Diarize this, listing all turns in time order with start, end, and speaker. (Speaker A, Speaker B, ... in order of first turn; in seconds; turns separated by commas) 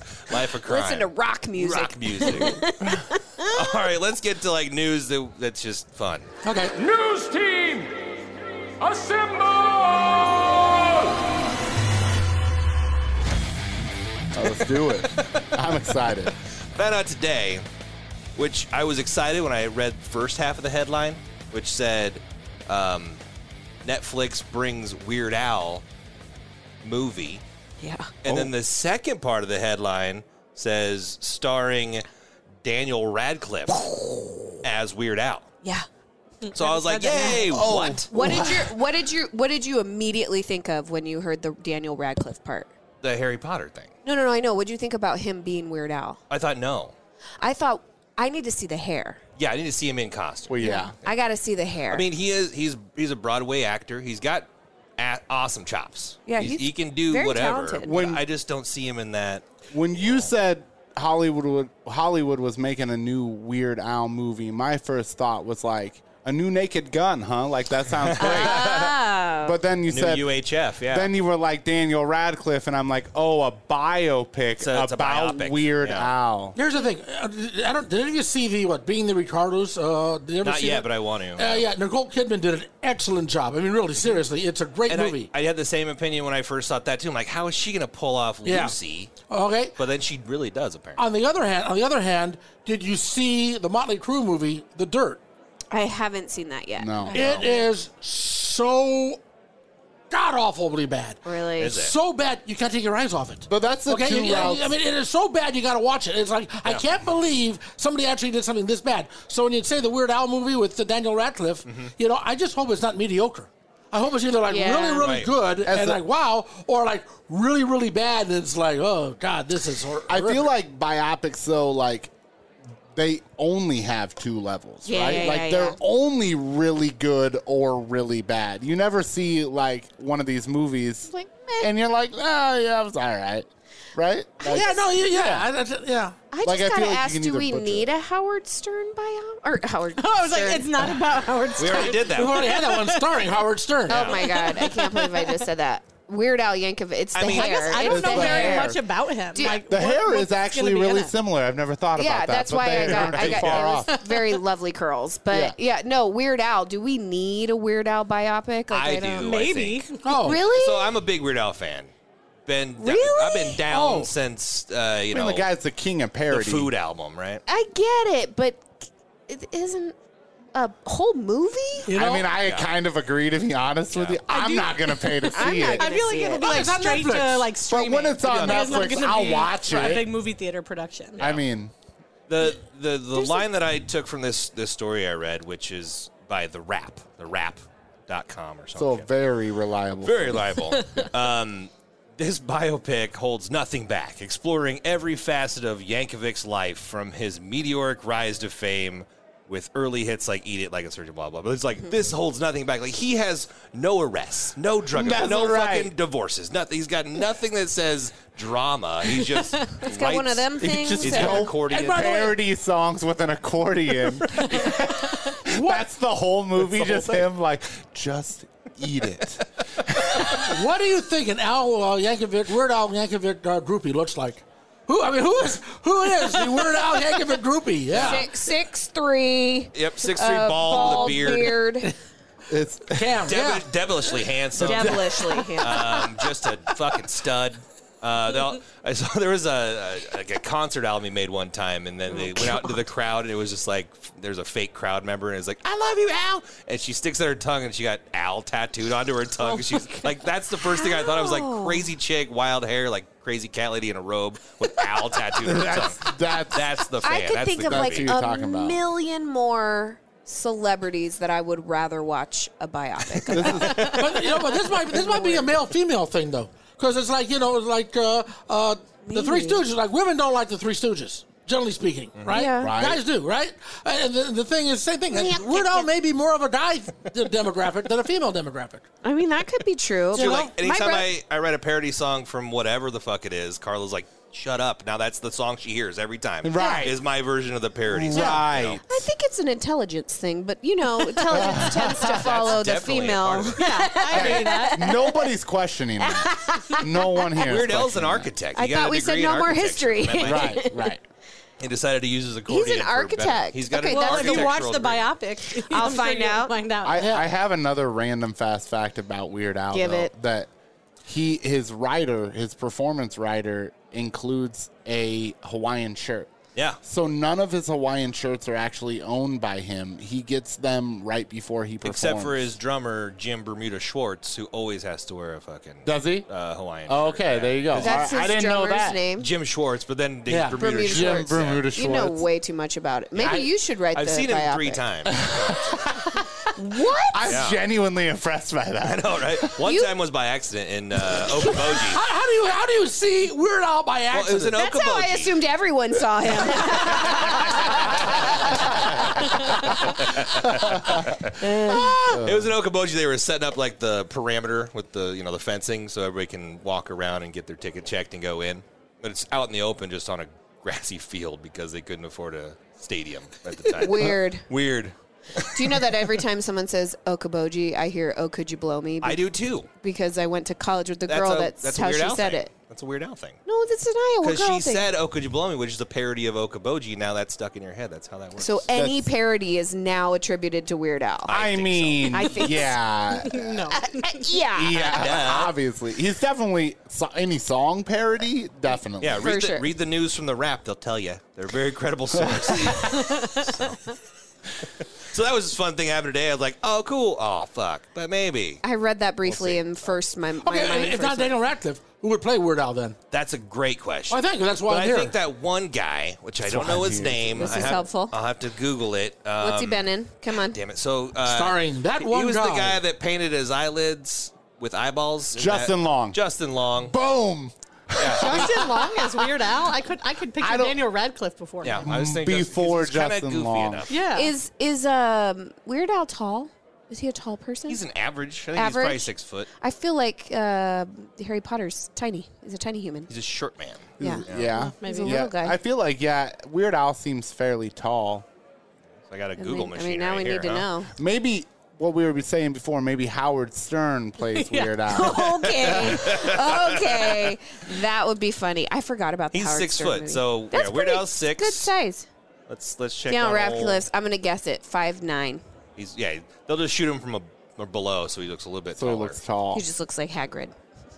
Speaker A: 0.2-2.6, Speaker B: 0.7-3.8, Speaker A: 3.5-6.3, Speaker C: 6.4-7.1, Speaker A: 9.5-9.9, Speaker D: 14.3-16.4, Speaker A: 15.2-15.4, Speaker A: 16.8-17.6, Speaker A: 18.4-23.2, Speaker A: 23.9-25.8, Speaker A: 26.8-27.4, Speaker B: 27.8-28.1, Speaker A: 28.2-32.0, Speaker D: 28.2-28.5, Speaker A: 32.6-33.9, Speaker A: 34.6-35.5, Speaker E: 36.4-37.6, Speaker A: 36.5-38.1, Speaker B: 37.1-37.4, Speaker D: 37.5-38.7, Speaker B: 38.1-42.7, Speaker A: 43.0-43.9, Speaker B: 44.0-46.2, Speaker A: 46.3-46.9, Speaker B: 47.4-49.2, Speaker A: 49.4-50.7, Speaker D: 50.5-50.9, Speaker B: 50.6-52.1, Speaker A: 51.9-54.5, Speaker A: 55.0-59.5, Speaker B: 56.3-58.0, Speaker D: 57.8-58.2, Speaker D: 59.7-76.6, Speaker A: 60.0-60.3, Speaker A: 68.1-68.6, Speaker B: 68.2-69.6, Speaker A: 69.9-71.1, Speaker A: 74.6-76.1, Speaker C: 76.5-85.3, Speaker A: 80.4-81.7, Speaker A: 84.9-89.1, Speaker C: 88.5-88.8, Speaker C: 89.3-89.8, Speaker A: 89.8-91.0, Speaker C: 91.0-95.2, Speaker B: 95.7-97.1, Speaker D: 96.8-97.4, Speaker C: 97.1-99.2, Speaker A: 97.2-97.5, Speaker C: 100.1-120.5, Speaker B: 101.2-101.8, Speaker A: 101.6-102.0, Speaker D: 103.5-104.8, Speaker A: 111.7-111.9, Speaker B: 114.5-115.1, Speaker A: 115.0-115.3, Speaker D: 115.6-116.0, Speaker D: 120.1-122.1, Speaker D: 123.0-135.5, Speaker B: 124.8-125.8, Speaker B: 131.1-131.7, Speaker C: 134.4-136.2, Speaker B: 136.3-140.8, Speaker D: 136.4-137.9, Speaker E: 140.0-143.2, Speaker A: 141.6-142.6, Speaker C: 141.9-144.3, Speaker A: 143.9-144.3, Speaker B: 143.9-148.7, Speaker E: 144.3-145.4, Speaker A: 147.2-147.9, Speaker E: 147.2-151.1, Speaker D: 147.8-148.8, Speaker B: 149.3-149.6, Speaker D: 149.4-153.9, Speaker B: 152.0-159.4, Speaker A: 153.2-153.6, Speaker E: 153.9-154.4, Speaker D: 155.3-155.6, Speaker A: 158.7-159.9, Speaker E: 159.2-160.1, Speaker C: 160.0-160.4, Speaker B: 160.2-160.9, Speaker A: 160.4-161.9, Speaker A: 162.5-165.5, Speaker B: 162.8-163.6, Speaker C: 163.7-164.1, Speaker D: 165.1-166.7, Speaker A: 166.3-167.4, Speaker B: 167.5-168.7, Speaker B: 169.3-169.9, Speaker B: 170.5-171.9, Speaker C: 171.9-172.3, Speaker D: 171.9-175.9, Speaker A: 172.4-172.7, Speaker A: 173.9-174.2, Speaker E: 174.3-181.2, Speaker B: 175.3-176.6, Speaker C: 176.4-177.5, Speaker D: 177.7-180.1, Speaker A: 178.2-179.1, Speaker D: 181.2-181.7, Speaker A: 182.3-189.1, Speaker D: 188.8-190.5, Speaker A: 190.0-212.3, Speaker D: 204.9-205.9, Speaker B: 209.8-211.5, Speaker D: 210.6-220.4, Speaker C: 211.7-212.3, Speaker C: 215.4-215.8, Speaker A: 216.7-217.2, Speaker C: 220.3-228.3, Speaker A: 227.9-228.2, Speaker B: 228.0-231.9, Speaker A: 229.7-231.6, Speaker C: 230.7-231.9, Speaker D: 232.5-233.3, Speaker C: 232.9-233.7, Speaker A: 233.3-258.1, Speaker B: 234.6-235.9, Speaker D: 234.6-235.5, Speaker B: 242.1-242.8, Speaker B: 250.7-251.9, Speaker D: 255.4-256.7, Speaker B: 257.0-264.2, Speaker D: 257.6-258.8, Speaker D: 263.3-264.1, Speaker C: 263.8-278.9, Speaker B: 264.9-265.5, Speaker B: 269.0-269.6, Speaker B: 272.3-272.8, Speaker D: 272.6-273.0, Speaker B: 275.1-275.9, Speaker B: 279.0-281.1, Speaker C: 280.1-280.5, Speaker A: 280.1-288.8, Speaker D: 286.4-287.0, Speaker C: 286.6-286.9, Speaker D: 287.9-289.1, Speaker B: 288.9-295.2, Speaker D: 291.3-292.5, Speaker A: 292.1-293.6, Speaker E: 293.6-294.9, Speaker D: 294.1-298.3, Speaker B: 296.0-297.3, Speaker A: 297.4-300.6, Speaker B: 298.6-301.0, Speaker D: 300.2-301.0, Speaker A: 301.6-305.1, Speaker B: 302.5-304.6, Speaker E: 303.9-307.1, Speaker B: 305.6-306.6, Speaker D: 306.8-310.5, Speaker C: 306.9-307.3, Speaker B: 309.7-310.1, Speaker D: 311.1-316.3, Speaker D: 316.8-322.5, Speaker A: 321.8-328.1, Speaker D: 325.9-326.3, Speaker D: 326.9-329.0, Speaker B: 327.8-329.3, Speaker A: 329.2-331.6, Speaker C: 330.3-330.6, Speaker B: 330.6-334.8, Speaker D: 330.9-332.3, Speaker D: 333.2-333.5, Speaker A: 333.9-335.8, Speaker D: 335.1-336.3, Speaker B: 336.6-337.3, Speaker D: 337.1-339.6, Speaker A: 337.3-337.6, Speaker A: 338.9-342.0, Speaker B: 339.6-339.9, Speaker C: 341.9-344.6, Speaker A: 344.1-345.3, Speaker B: 344.6-348.4, Speaker A: 346.9-365.9, Speaker D: 348.5-349.5, Speaker B: 349.3-349.8, Speaker D: 350.4-351.0, Speaker B: 351.4-352.1, Speaker D: 352.1-352.5, Speaker B: 363.8-364.5, Speaker B: 365.5-369.2, Speaker A: 369.0-369.7, Speaker B: 369.8-372.5, Speaker A: 371.1-373.4, Speaker B: 373.5-374.9, Speaker A: 374.2-378.7, Speaker B: 378.4-381.4, Speaker D: 378.7-379.1, Speaker A: 381.3-382.3, Speaker D: 381.3-383.7, Speaker B: 382.1-382.8, Speaker E: 383.2-384.3, Speaker B: 383.7-385.0, Speaker D: 384.5-389.4, Speaker A: 384.7-385.5, Speaker A: 389.0-393.9, Speaker B: 389.2-389.7, Speaker D: 392.2-392.8, Speaker E: 392.9-393.5, Speaker A: 395.1-398.6, Speaker B: 398.6-401.4, Speaker A: 399.2-399.7, Speaker C: 400.4-403.0, Speaker A: 403.1-409.9, Speaker C: 404.1-405.1, Speaker D: 406.4-407.8, Speaker B: 407.4-408.1, Speaker B: 409.4-410.6, Speaker A: 410.5-416.9, Speaker C: 411.2-412.8, Speaker D: 415.3-416.2, Speaker D: 416.8-419.2, Speaker A: 418.0-418.5, Speaker E: 418.1-421.9, Speaker D: 420.4-420.8, Speaker A: 421.6-423.9, Speaker D: 421.7-423.9, Speaker E: 423.9-424.3, Speaker B: 424.1-427.8, Speaker A: 427.7-429.5, Speaker B: 428.5-429.1, Speaker B: 429.6-433.1, Speaker A: 433.1-434.5, Speaker D: 434.0-438.2, Speaker B: 434.0-435.6, Speaker E: 434.6-435.2, Speaker A: 439.1-440.7, Speaker B: 439.4-440.9, Speaker D: 441.0-446.0, Speaker E: 444.2-444.8, Speaker B: 444.9-452.1, Speaker A: 445.5-447.2, Speaker A: 449.3-451.7, Speaker A: 452.5-453.9, Speaker B: 453.1-455.4, Speaker A: 455.8-459.2, Speaker D: 458.8-459.6, Speaker B: 459.5-460.5